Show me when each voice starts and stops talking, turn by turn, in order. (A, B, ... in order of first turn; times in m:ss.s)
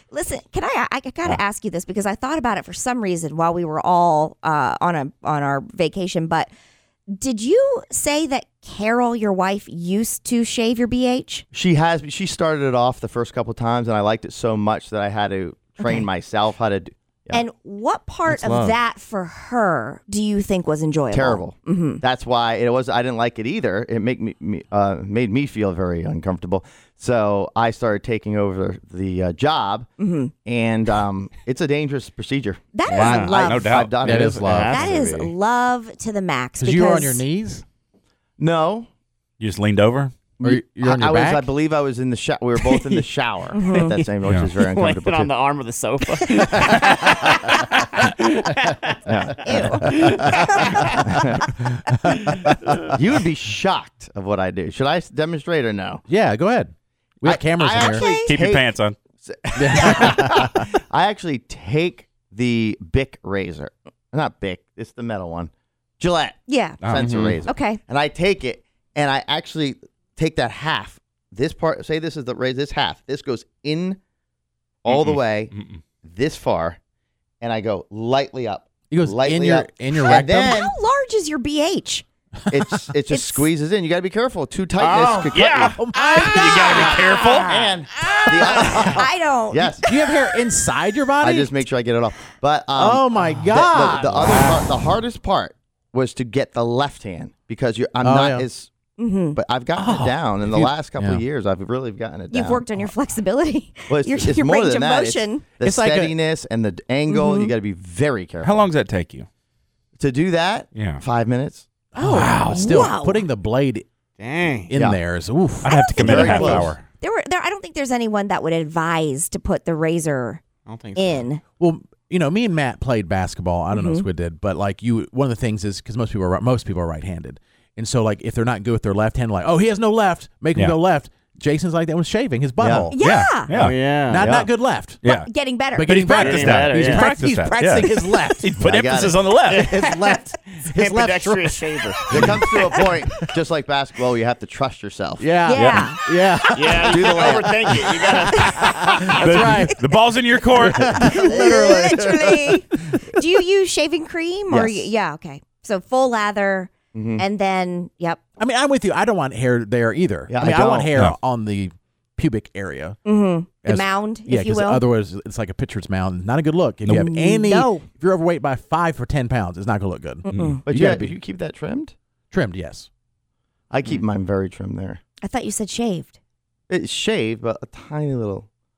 0:00.1-0:06.5 A
0:07.1-0:11.4 A
0:11.5-0:17.4 B
0:15.8-0:16.1 A
0:17.3-0:22.0 A
0:18.3-0:18.8 B
0:21.1-0:29.9 B
0:30.0-0:30.3 A
0:30.4-0:34.8 B
0:32.8-0:33.7 A
0:32.9-0:33.4 C
0:33.4-0:34.1 D
0:34.0-0:34.8 E
0:34.4-0:35.3 C
0:34.6-0:37.2 A
0:36.6-0:37.6 E
0:38.4-0:38.9 B
0:39.4-0:40.2 D
0:40.4-0:45.3 B
0:40.4-0:41.5 E
0:43.5-0:43.9 A
0:43.7-0:44.0 C
0:44.6-0:51.2 C
0:49.1-0:50.0 B
0:49.4-0:51.0 A
0:51.0-0:51.4 B
0:52.1-0:52.9 C
0:52.9-0:56.0 B
0:56.1-0:58.2 E
0:57.2-1:14.0 B
0:57.8-0:58.3 A
0:58.2-0:59.0 D
0:59.6-1:00.7 E
1:06.5-1:06.9 A
1:06.8-1:07.2 D
1:07.0-1:07.4 C
1:07.4-1:07.8 A
1:14.8-1:15.5 B
1:14.9-1:15.8 D
1:16.0-1:16.8 B
1:17.4-1:20.8 B
1:18.9-1:20.6 E
1:20.1-1:22.0 A
1:22.5-1:25.8 B
1:23.1-1:23.5 A
1:24.8-1:25.8 C
1:25.3-1:27.5 D
1:25.7-1:27.0 E
1:26.0-1:27.2 A
1:27.0-1:27.5 C
1:27.5-1:29.9 B
1:28.1-1:29.0 C
1:28.5-1:30.2 A
1:29.8-1:31.5 E
1:31.2-1:38.7 B
1:32.8-1:34.4 E
1:34.2-1:34.7 C
1:38.0-1:38.5 E
1:39.0-1:39.4 A
1:39.4-1:42.7 B
1:39.8-1:41.2 E
1:42.3-1:45.4 A
1:43.9-1:48.7 B
1:45.6-1:46.1 E
1:47.1-1:47.5 A
1:48.4-1:49.3 D
1:50.0-1:51.7 B
1:50.7-1:51.0 D
1:52.0-1:53.2 A
1:52.0-1:53.9 E
1:52.1-1:52.6 D
1:54.2-1:54.7 C
1:54.7-1:55.8 E
1:55.6-1:56.8 D
1:55.7-2:00.4 A
1:56.0-1:56.8 B
2:00.7-2:01.3 C
2:01.0-2:01.4 A
2:01.6-2:13.0 E
2:03.7-2:04.1 A
2:12.6-2:12.9 B
2:12.9-2:13.5 A
2:13.0-2:13.9 D
2:13.5-2:14.4 C
2:13.6-2:15.0 E
2:14.2-2:14.5 B
2:15.0-2:16.6 A
2:15.7-2:18.5 E
2:16.1-2:17.1 C
2:16.3-2:19.8 D
2:18.6-2:19.2 B
2:19.5-2:22.6 C
2:19.5-2:23.3 E
2:22.1-2:25.3 B
2:25.2-2:27.4 E
2:25.4-2:26.8 A
2:26.5-2:29.3 C
2:26.8-2:29.2 B
2:28.3-2:29.8 E
2:28.3-2:29.1 A
2:29.2-2:30.9 D
2:30.6-2:31.0 E
2:30.8-2:32.6 B
2:30.9-2:38.2 A
2:34.5-2:34.9 B
2:36.9-2:37.2 B
2:38.4-2:43.0 E
2:40.3-2:40.9 B
2:43.0-2:44.8 A
2:43.6-2:51.2 E
2:46.9-2:47.9 A
2:50.2-2:50.6 A
2:50.3-2:50.6 D
2:50.6-2:51.9 B
2:52.3-2:52.9 E
2:53.7-2:55.0 B
2:55.2-2:56.2 A
2:56.7-2:58.5 B